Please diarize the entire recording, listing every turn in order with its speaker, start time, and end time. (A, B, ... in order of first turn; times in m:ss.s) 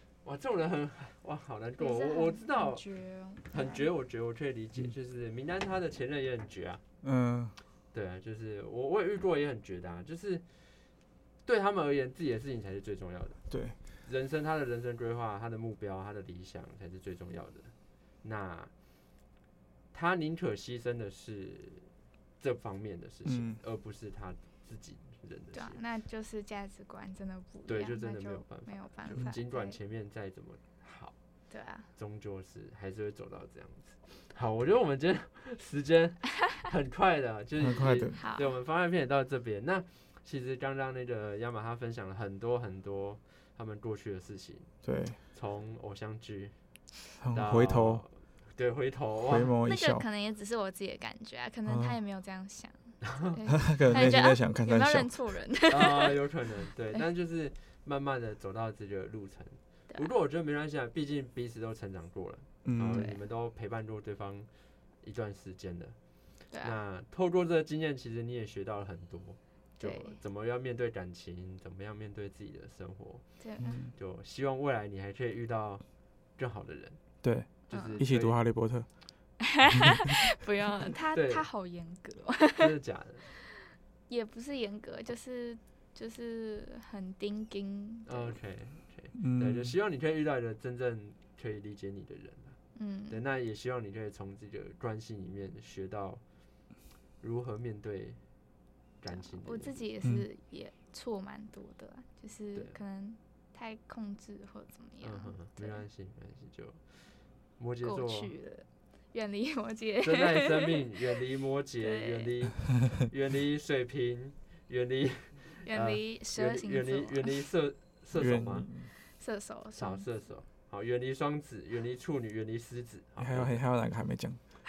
0:00.2-0:02.9 A
0:01.8-0:03.9 B
0:03.5-0:06.8 A
0:07.0-0:07.6 C
0:07.9-0:10.4 A
0:11.4-0:13.4 A
0:13.5-0:13.8 C
0:14.0-0:18.7 A
0:19.9-0:25.8 A
0:23.2-0:23.6 C
0:25.5-0:29.8 B
0:27.7-0:31.2 A
0:31.5-0:31.9 B
0:31.9-0:44.7 A
0:37.6-0:38.1 C
0:38.1-0:38.5 B
0:44.8-0:45.2 C
0:45.3-0:46.6 A
0:47.2-0:48.0 C
0:47.3-0:49.5 A
0:49.2-0:50.0 C
0:49.6-0:56.1 B
0:51.6-0:52.0 C
0:53.0-0:53.3 A
0:53.5-0:55.2 C
0:53.9-0:54.2 A
0:55.7-1:04.5 A
1:02.6-1:03.1 C
1:02.9-1:03.2 B
1:05.0-1:13.3 A
1:09.8-1:10.2 B
1:13.4-1:13.8 B
1:13.6-1:13.9 C
1:13.9-1:15.8 A
1:16.4-1:17.0 A
1:17.2-1:18.9 C
1:17.7-1:18.4 A
1:17.7-1:18.0 B
1:19.4-1:22.7 B
1:21.1-1:21.5 A
1:22.6-1:23.3 A
1:23.6-1:28.4 B
1:28.0-1:36.2 A
1:29.2-1:29.8 C
1:32.8-1:33.2 B
1:37.2-1:38.2 A
1:39.0-1:39.9 A
1:39.1-1:45.9 B
1:40.0-1:40.3 C
1:45.0-1:48.3 A
1:47.8-1:50.9 B
1:50.0-1:58.7 A
1:51.8-1:52.3 B
1:55.6-1:57.4 B
1:58.1-1:58.9 C
1:59.1-2:00.0 B
1:59.8-2:03.6 A
2:03.2-2:04.4 C